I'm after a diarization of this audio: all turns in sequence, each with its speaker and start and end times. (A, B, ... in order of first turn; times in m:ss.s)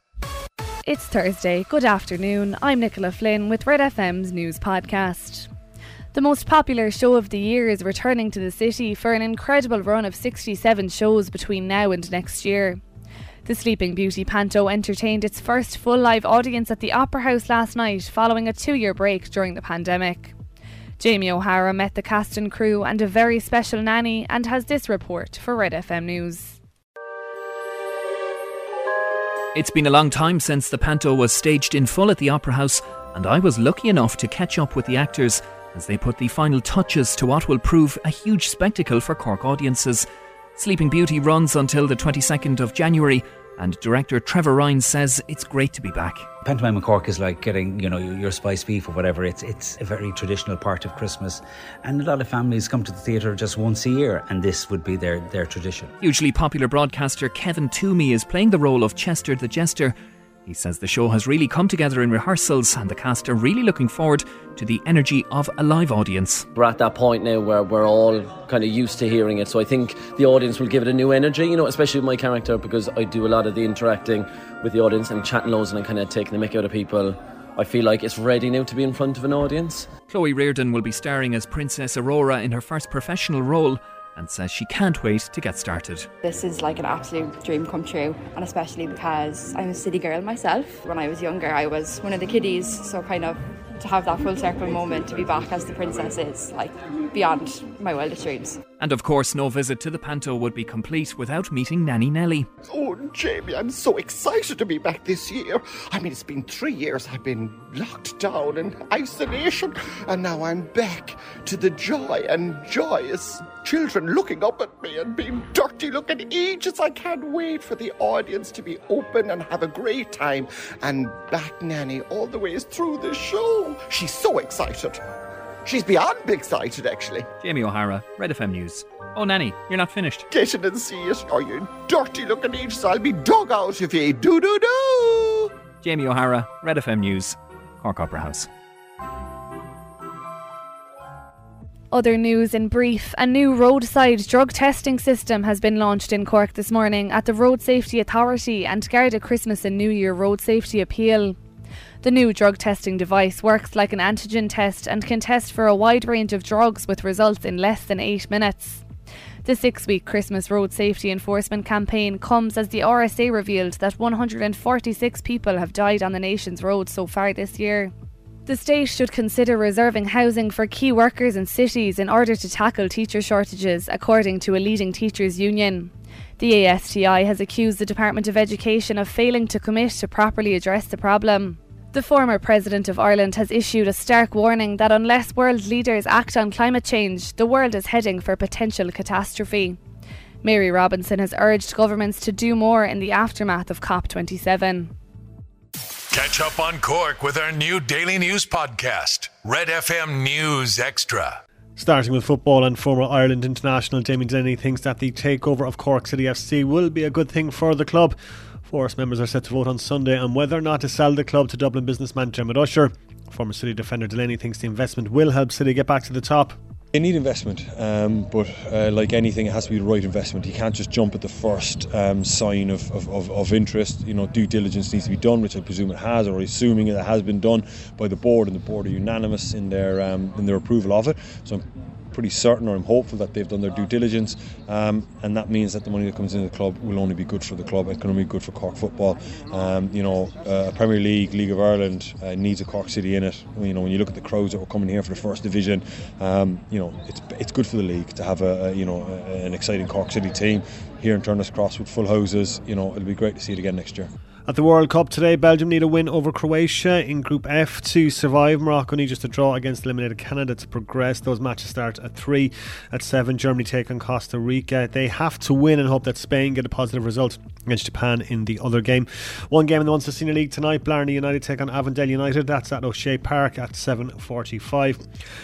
0:00.9-0:05.5 A
0:06.1-0:12.8 A
0:13.4-0:20.3 A
0:21.0-0:26.6 A
0:29.6-0:40.0 B
0:40.6-0:46.3 B
0:46.4-0:55.9 C
0:56.0-1:00.0 B
1:00.4-1:06.4 B
1:06.6-1:19.9 D
1:20.1-1:26.1 B
1:26.2-1:38.6 E
1:38.8-1:42.5 B
1:42.7-2:05.0 F
2:05.6-2:07.2 F
2:07.4-2:10.2 B
2:10.3-2:15.5 F
2:15.8-2:18.5 B
2:21.9-2:31.4 A
2:32.0-2:38.8 A
2:39.4-2:47.9 A
2:48.5-3:09.8 A
3:10.4-3:14.9 A
3:16.1-3:21.4 G
3:21.8-3:36.6 H
3:36.9-4:14.1 I
4:14.5-4:35.0 H